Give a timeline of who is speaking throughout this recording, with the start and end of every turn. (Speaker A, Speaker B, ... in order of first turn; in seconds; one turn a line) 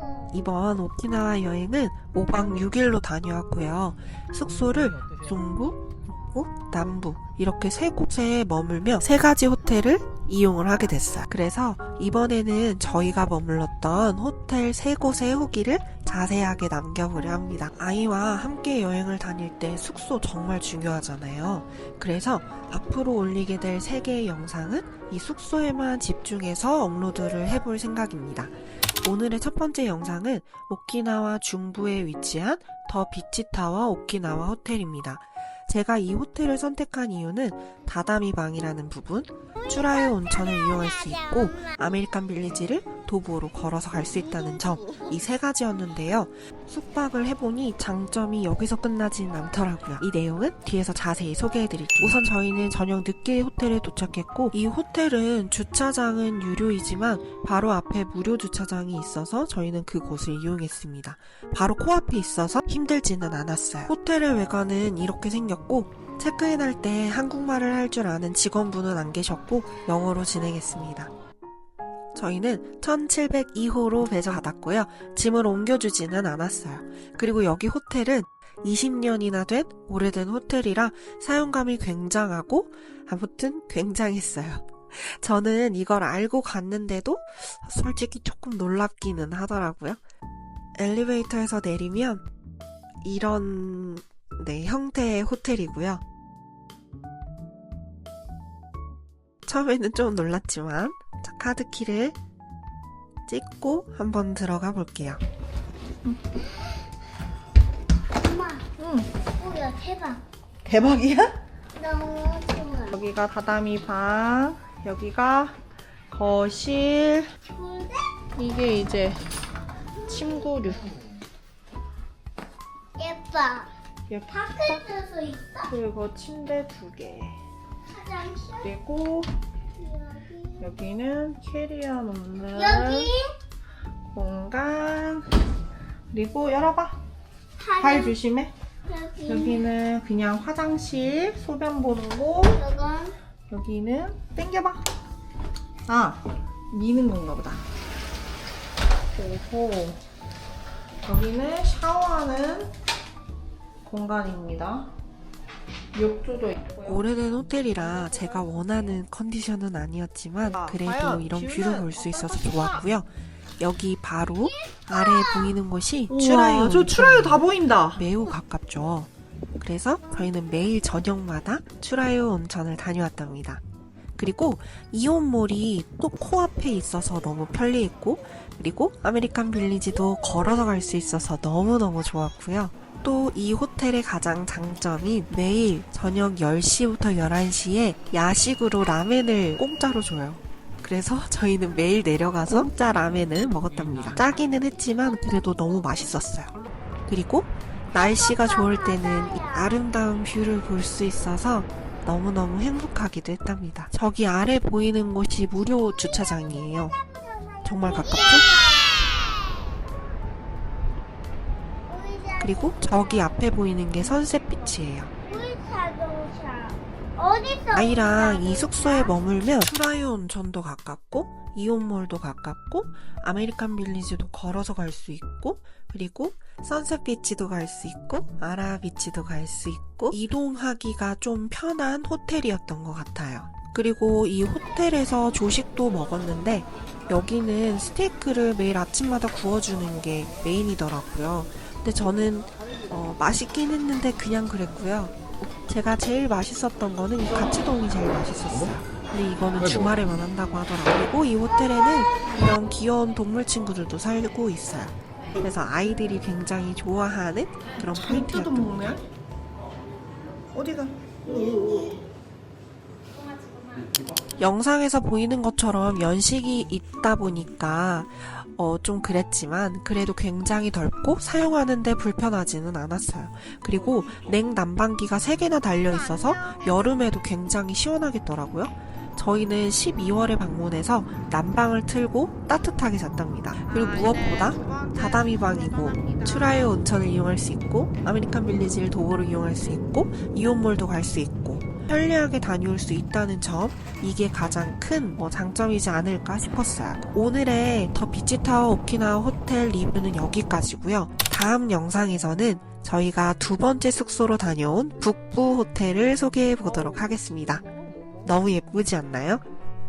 Speaker A: 0.3-28.5
Speaker A: 29.0-71.1
Speaker A: 72.1-90.0
Speaker A: 90.8-92.2
Speaker A: 93.0-96.0
Speaker A: 99.5-102.2
Speaker A: 103.3-105.2
Speaker B: 108.2-108.7
Speaker C: 108.8-109.1
Speaker B: 109.3-110.2
Speaker C: 110.6-111.3
Speaker B: 111.7-113.0
Speaker C: 112.9-115.5
Speaker C: 116.1-117.3
Speaker B: 117.4-118.1
Speaker C: 118.3-119.2
Speaker B: 120.0-120.7
Speaker C: 120.1-120.9
Speaker B: 123.0-123.7
Speaker C: 124.1-124.8
Speaker B: 124.3-125.7
Speaker C: 125.7-127.4
Speaker B: 127.9-128.7
Speaker C: 128.6-129.3
Speaker B: 129.7-130.6
Speaker C: 130.6-133.1
Speaker B: 132.5-133.3
Speaker C: 134.1-135.3
Speaker C: 136.1-137.0
Speaker B: 137.6-138.2
Speaker C: 137.8-138.5
Speaker B: 138.8-139.6
Speaker C: 139.3-142.6
Speaker B: 142.5-143.2
Speaker C: 143.5-144.8
Speaker C: 145.9-147.6
Speaker C: 149.2-150.0
Speaker C: 151.0-152.7
Speaker C: 153.8-154.9
Speaker C: 155.9-157.0
Speaker A: 156.8-167.4
Speaker C: 160.5-162.8
Speaker B: 164.4-165.5
Speaker C: 166.1-168.1
Speaker A: 167.9-173.6
Speaker A: 174.2-196.5
Speaker A: 197.1-206.9
Speaker B: 197.9-199.8
Speaker B: 206.8-209.3
Speaker A: 207.6-208.5
Speaker B: 211.8-213.3
Speaker A: 212.4-215.1
Speaker B: 215.2-219.1
Speaker A: 217.7-258.8
Speaker C: 257.9-259.0
Speaker C: 260.5-261.9
Speaker A: 264.4-307.6
Speaker C: 275.8-277.0
Speaker C: 283.6-286.7
Speaker A: 308.2-309.4